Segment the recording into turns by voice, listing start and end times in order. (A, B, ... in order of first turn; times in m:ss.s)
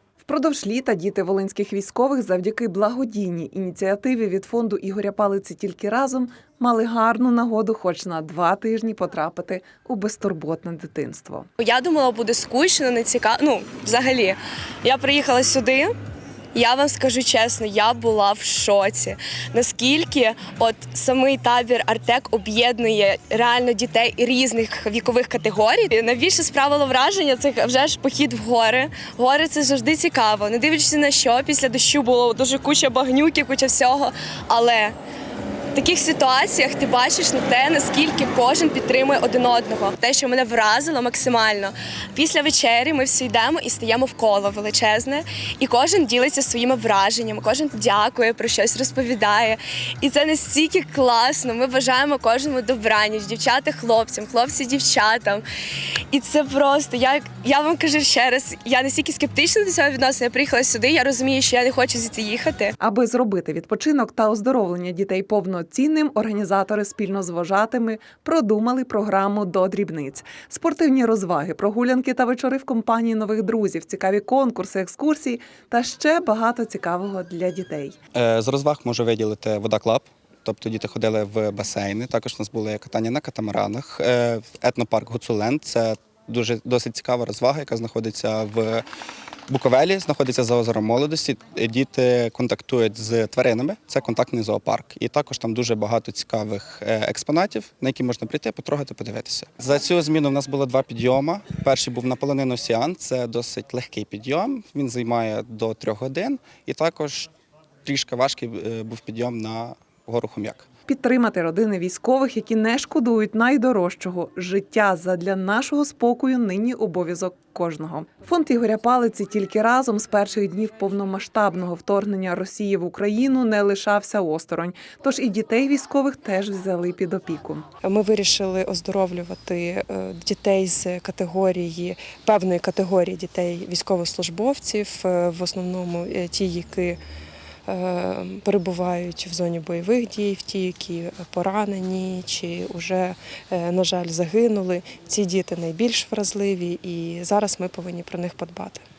0:00.2-0:11.5 A
0:11.6-0:15.9 B
0:16.5-0:34.9 B
0:35.8-0:55.4 B
0:56.1-1:02.7 B
1:02.8-1:18.0 A
1:18.1-1:28.8 C
1:29.5-1:47.3 C
1:47.8-1:50.7 C
1:50.9-2:07.7 A
2:07.8-2:17.0 D
2:17.7-2:28.8 D